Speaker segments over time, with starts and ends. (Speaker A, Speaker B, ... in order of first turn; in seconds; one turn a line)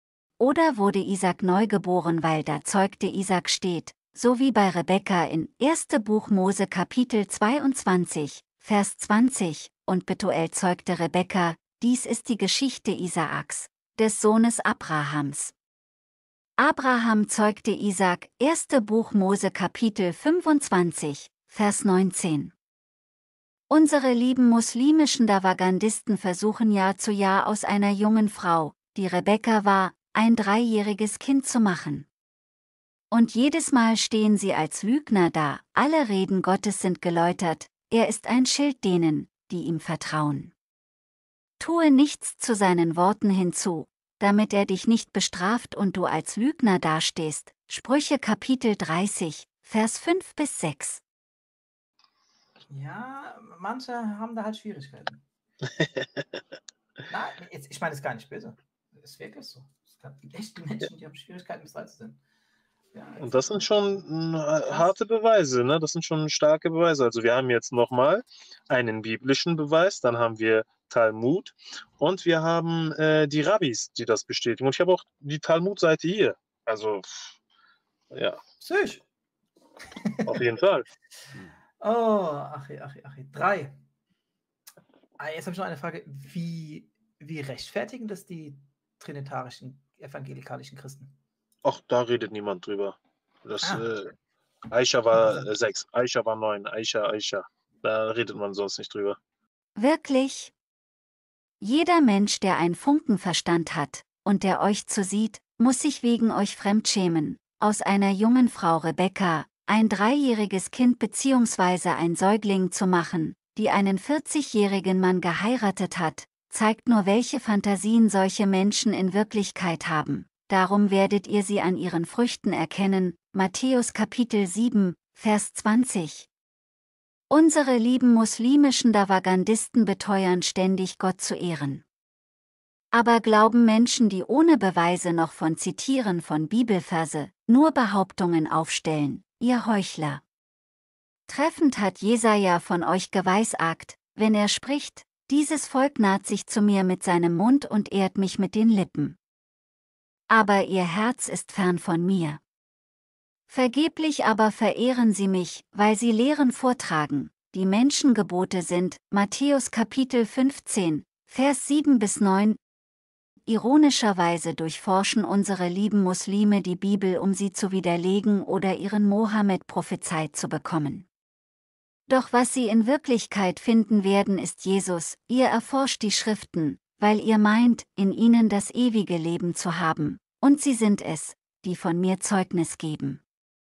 Speaker A: 0.4-15.5
Speaker A: 16.6-22.5
Speaker A: 23.7-32.1
Speaker A: 33.1-40.5
Speaker A: 41.6-51.0
Speaker B: 52.7-55.2
Speaker B: 57.1-62.2
Speaker B: 62.9-64.0
Speaker C: 63.2-77.3
Speaker B: 64.6-64.9
Speaker C: 78.1-78.4
Speaker B: 78.6-79.0
Speaker B: 79.8-80.4
Speaker C: 80.2-80.8
Speaker B: 81.8-83.8
Speaker B: 85.2-91.1
Speaker C: 91.6-94.1
Speaker B: 93.6-93.9
Speaker C: 94.7-99.2
Speaker B: 95.1-95.5
Speaker A: 99.8-100.5
Speaker A: 101.6-126.3
Speaker A: 127.3-131.8
Speaker A: 132.9-140.2
Speaker A: 141.3-149.2
Speaker A: 150.3-152.4
Speaker A: 153.5-162.6
Speaker A: 163.5-171.1
Speaker A: 172.1-183.2